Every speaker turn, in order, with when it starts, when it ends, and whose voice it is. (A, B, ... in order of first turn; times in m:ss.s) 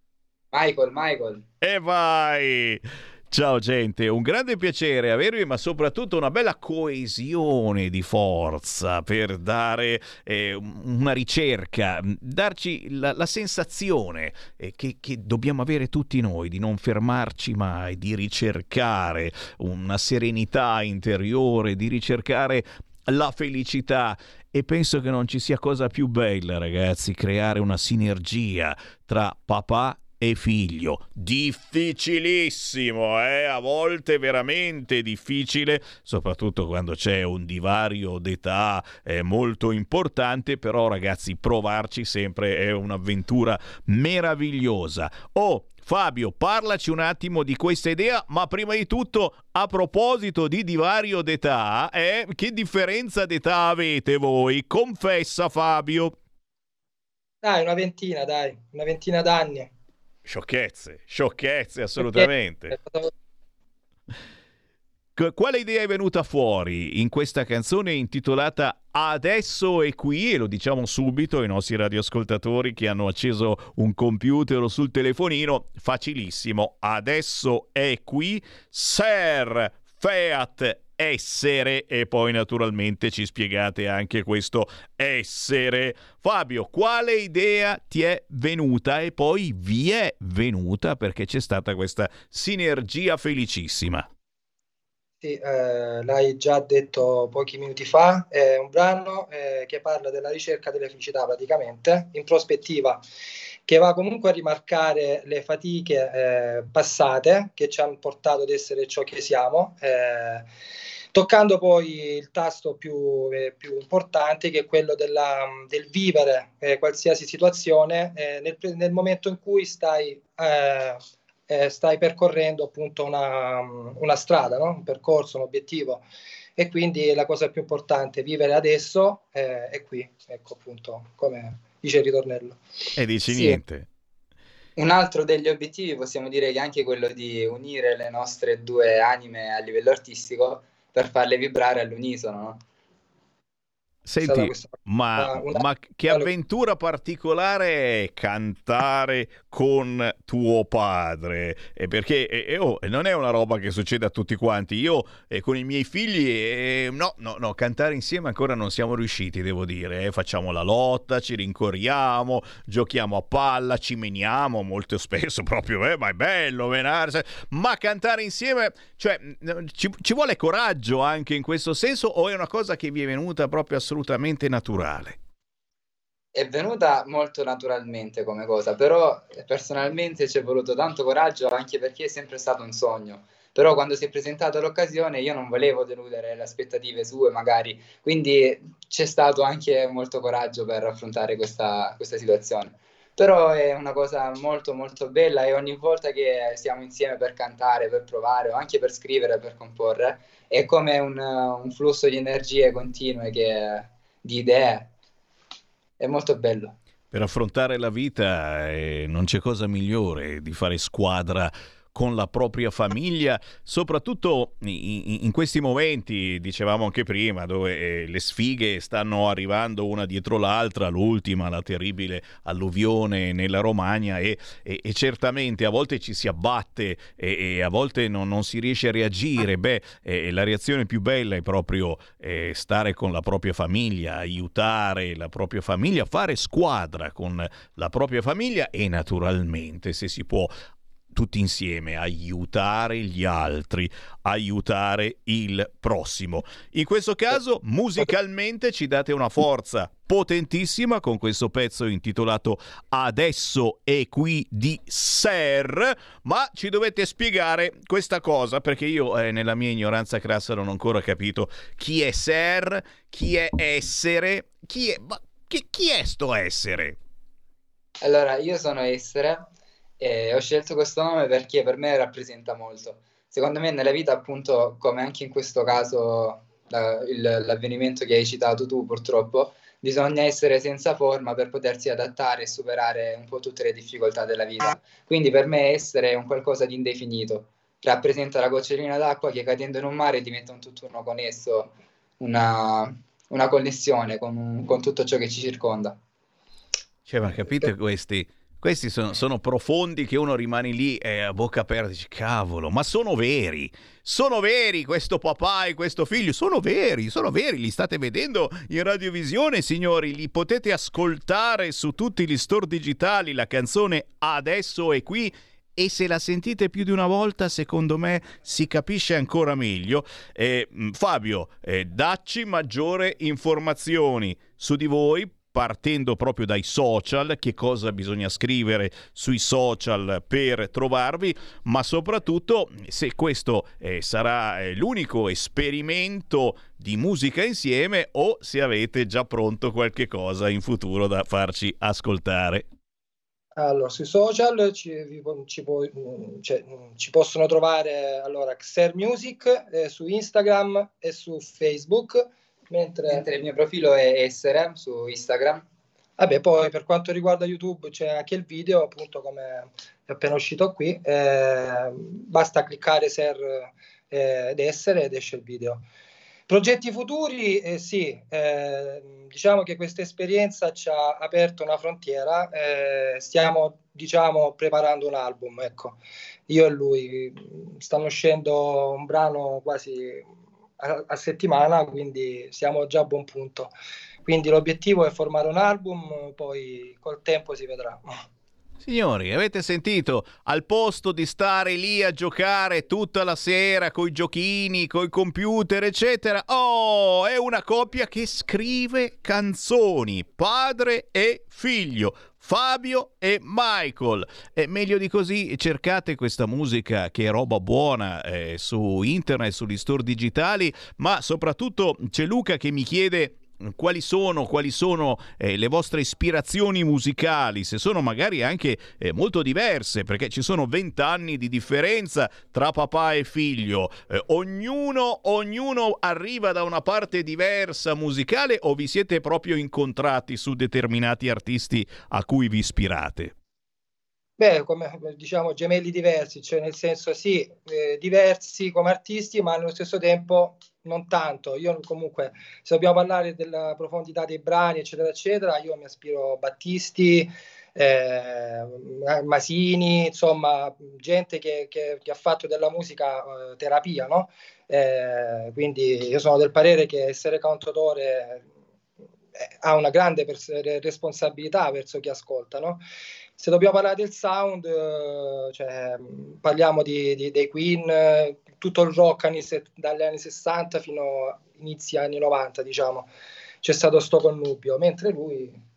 0:00.5-0:01.4 A
0:01.6-0:56.2 B
0:57.4-0:59.7 C
1:00.3-1:02.8 B
1:02.0-1:03.1 C
1:05.2-1:34.1 B
1:35.2-1:43.0 C
1:43.7-1:50.5 C
1:51.1-2:06.0 C
2:06.6-2:12.6 C
2:13.0-2:13.9 B
2:14.8-2:22.6 A
2:24.1-2:55.2 B
2:24.2-2:26.3 C
2:56.3-3:24.9 A
3:26.0-3:26.8 A
3:27.1-4:00.5 B
4:01.1-4:27.0 B
4:28.0-4:29.5 A
4:30.0-4:56.0 A
4:57.1-5:42.7 B
5:43.6-5:53.2 C
5:53.1-5:55.6 A
5:56.2-6:05.8 C
6:06.5-6:20.3 C
6:20.8-6:23.7 C
6:24.2-6:28.2 C
6:28.8-7:13.3 B
7:14.4-7:38.5 C
7:39.4-7:42.8 C
7:43.4-7:53.1 C
7:53.6-7:55.6 C